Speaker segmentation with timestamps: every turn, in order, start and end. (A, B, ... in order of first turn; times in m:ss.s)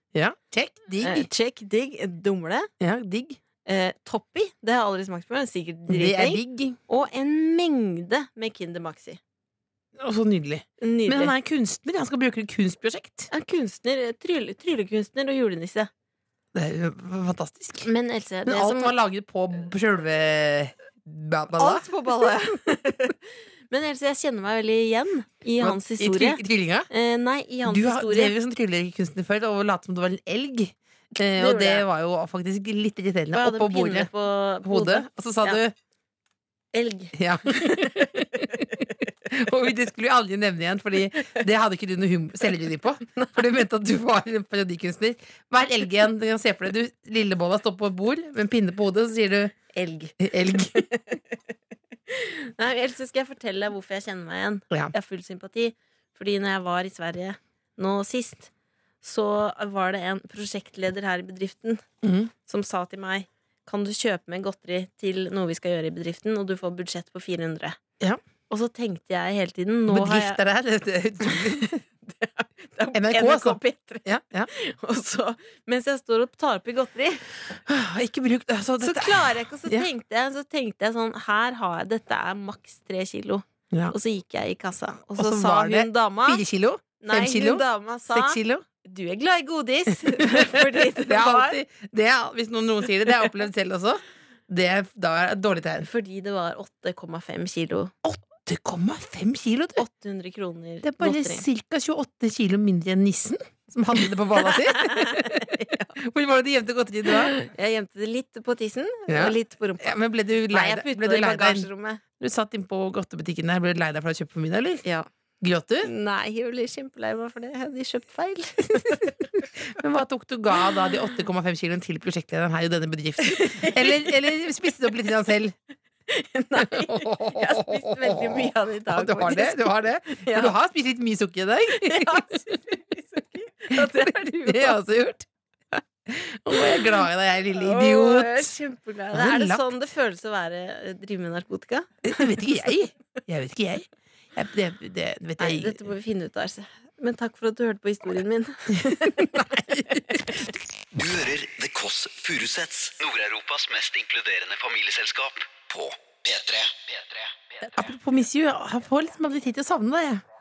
0:00.1-0:01.3 A
0:01.0-0:02.7 B
0:02.8-0:03.4 A
0:03.6-0:09.2 B
0:05.9-0:06.8 A
0:10.0-0:13.3 A
0:10.8-0:11.3 B
0:13.3-0:15.9 B
0:16.5-0:17.9 A
0:17.8-0:18.9 B
0:18.4-0:21.8 A
0:21.6-0:28.3 B
0:25.6-0:26.9 A
0:27.6-0:34.1 A
0:31.4-0:31.8 B
0:33.3-0:35.6 B
0:34.6-0:35.7 A
0:36.7-0:39.1 B
0:37.1-0:49.6 A
0:49.7-0:51.3 B
0:50.2-0:50.9 A
0:52.1-0:58.5 B
0:59.0-1:01.8 B
1:02.0-1:02.3 A
1:02.4-1:07.8 B
1:08.5-1:10.4 B
1:09.9-1:11.8 A
1:11.2-1:17.2 B
1:12.9-1:14.5 A
1:17.7-1:19.9 A
1:18.8-1:26.4 B
1:25.2-1:28.6 A
1:27.0-1:31.6 B
1:30.1-1:35.9 A
1:35.8-1:37.9 B
1:38.0-1:39.8 A
1:39.8-1:41.4 B
1:40.8-1:47.3 A
1:44.4-1:45.9 B
1:47.1-1:50.0 B
1:49.1-1:51.7 A
1:50.5-1:52.0 B
1:52.2-1:54.8 A
1:55.4-1:55.9 A
1:55.8-1:59.3 B
1:59.6-2:05.6 A
2:03.2-2:04.1 B
2:06.1-2:10.5 B
2:06.6-2:12.3 A
2:11.7-2:14.8 B
2:13.7-2:15.2 A
2:16.1-2:18.5 A
2:17.5-2:22.5 B
2:19.1-2:19.7 A
2:22.0-2:25.8 A
2:25.4-2:30.5 B
2:28.7-2:30.2 A
2:30.9-2:37.3 C
2:37.8-2:40.2 A